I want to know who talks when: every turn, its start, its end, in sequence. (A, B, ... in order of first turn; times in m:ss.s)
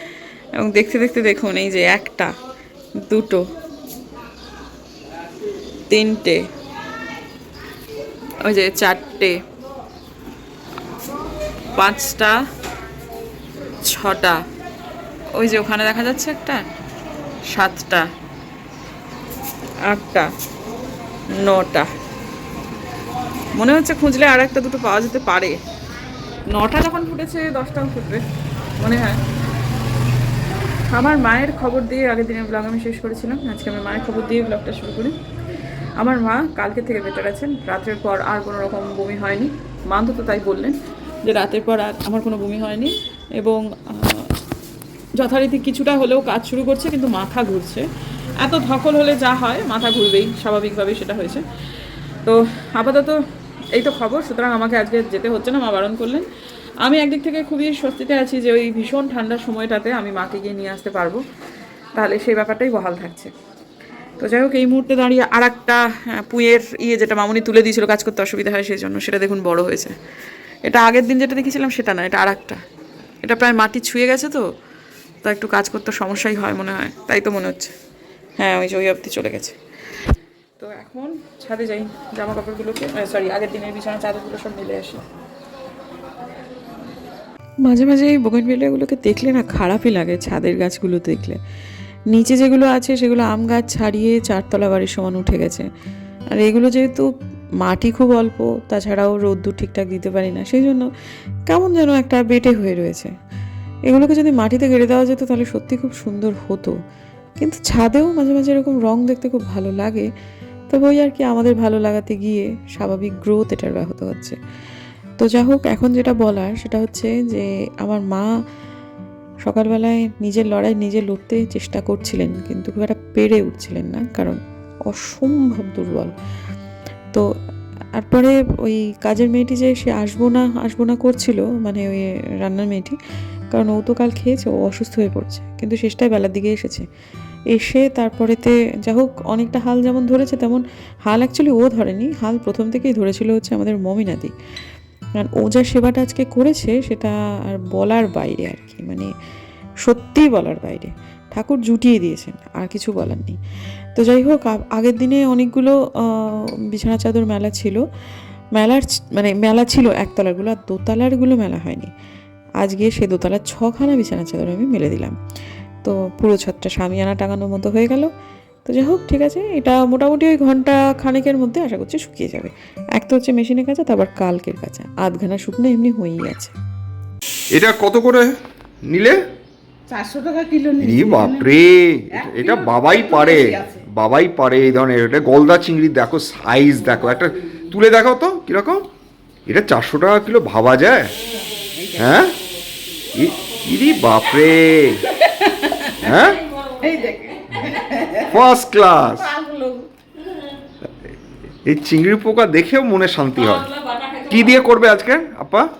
0:00.6-0:02.3 A
0:03.0-0:03.4 A
0:05.9-0:06.4 A
0:08.4-0:09.4 A
0:11.8-0:12.4 A
0:13.8-0:14.4 A
0:15.3-0:16.6 A
0:17.5-0:18.1 A
0:19.8-0:20.3 A
0:21.4-0:21.9 A
0:23.5-0:25.6 A
0:26.5-0:28.2 A
0:28.8-0:29.2 A
0:30.9-0:35.2 A
0:36.0-0:44.3 A
0:45.2-0:47.9 A
0:48.4-0:51.4 A
0:52.2-0:53.2 A
0:53.7-0:56.3 A
0:56.8-1:01.2 A
1:01.9-1:03.3 A
1:04.2-1:10.0 A
1:10.6-1:12.6 A
1:13.2-1:14.4 A
1:15.2-1:17.7 A
1:18.4-1:19.6 A
1:20.6-1:25.0 A
1:27.6-1:31.4 A
1:32.1-1:35.7 A
1:36.3-1:37.1 A
1:37.6-1:40.8 A
1:41.5-1:43.1 A
1:43.9-1:46.7 A
1:47.4-1:50.1 A
1:50.7-1:54.4 A
1:55.2-1:58.3 A
1:59.4-2:06.1 A
2:08.0-2:13.0 A
2:13.5-2:16.8 A
2:17.5-2:24.3 A
2:25.2-2:29.1 A
2:29.8-2:33.4 A
2:34.0-2:37.8 A
2:38.5-2:41.9 A
2:42.6-2:45.2 A
2:45.8-2:48.1 A
2:48.6-2:56.5 A
2:57.5-2:58.3 B
2:58.9-2:59.2 B
2:59.9-3:01.5 C
3:00.8-3:08.8 B
3:02.1-3:03.8 C
3:09.5-3:11.1 B
3:11.7-3:12.1 C
3:12.0-3:12.3 B
3:13.1-3:15.0 B
3:15.1-3:16.1 C
3:16.0-3:16.4 B
3:16.7-3:18.4 C
3:18.3-3:19.3 B
3:19.2-3:19.9 C
3:21.6-3:25.7 B